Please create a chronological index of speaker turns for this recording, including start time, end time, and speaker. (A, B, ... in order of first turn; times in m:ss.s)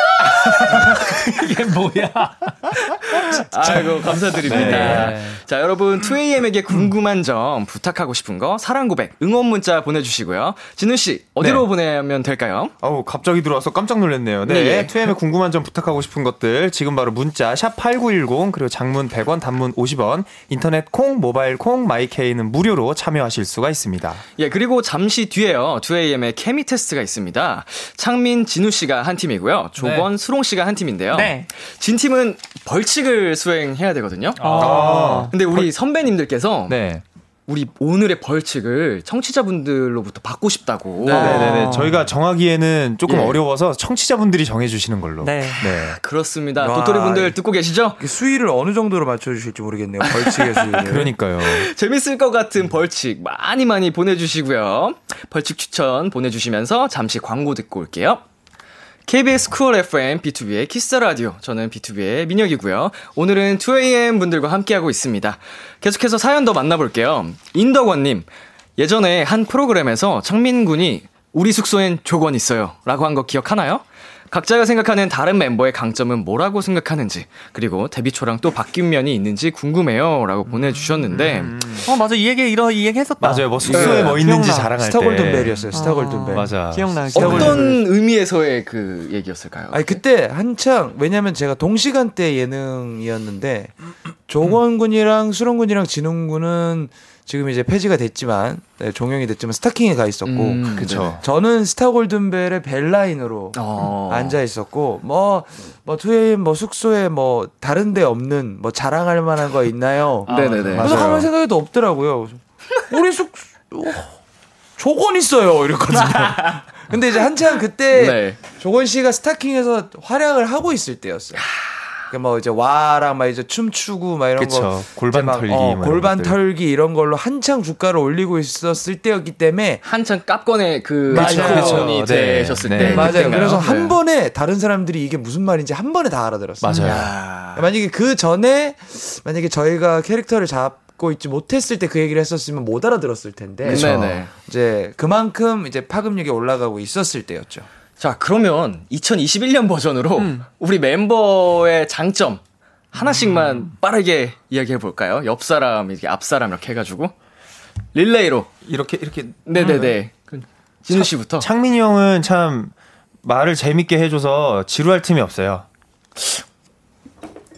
0:00.2-0:03.0 A
0:03.1-0:12.7 B
0:04.4-0:05.1 C
0:04.5-0:05.4 A
0:11.4-0:11.7 C
0:12.8-0:24.2 C
0:14.4-0:15.1 B
0:24.4-0:34.7 B
0:29.8-0:30.1 A
0:31.1-0:31.5 D
0:34.4-0:35.2 A
0:34.4-0:35.3 D
0:34.5-0:35.7 C
0:35.3-0:36.8 B
0:36.7-0:37.0 C
0:37.5-0:41.6 B
0:41.0-0:41.6 E
0:41.1-0:46.0 C
0:41.1-0:42.0 D
0:43.1-0:43.4 B
0:45.2-0:45.6 D
0:45.6-0:48.0 B
0:46.6-0:47.4 E
0:48.0-0:51.1 E
0:50.0-0:50.8 B
0:50.8-0:51.7 C
0:51.4-0:58.2 B
0:59.1-1:21.6 B
1:21.1-1:21.9 C
1:21.8-1:24.7 D
1:23.2-1:27.6 C
1:23.6-1:26.6 E
1:23.7-1:24.2 B
1:25.7-1:27.7 D
1:27.1-1:27.8 E
1:27.2-1:30.0 B
1:29.7-1:33.7 E
1:34.3-1:54.1 E
1:40.2-1:41.2 B
1:40.7-1:41.2 C
1:43.6-1:44.4 B
1:50.3-1:50.9 A
1:50.3-1:51.0 B
1:50.7-1:51.3 C
1:54.8-2:01.4 E
1:56.1-1:56.6 B
1:57.9-1:58.4 B
2:02.1-2:09.8 E
2:04.4-2:06.4 C
2:09.8-2:14.0 B
2:11.1-2:12.1 E
2:11.1-2:13.6 C
2:12.8-2:16.9 E
2:16.6-2:17.1 C
2:16.8-2:17.7 B
2:17.5-2:27.7 E
2:23.6-2:24.2 C
2:23.6-2:24.3 B
2:28.0-2:32.4 B
2:32.9-2:37.1 B
2:37.9-2:38.5 B
2:38.7-2:40.0 C
2:39.5-2:41.5 B
2:40.9-2:45.7 C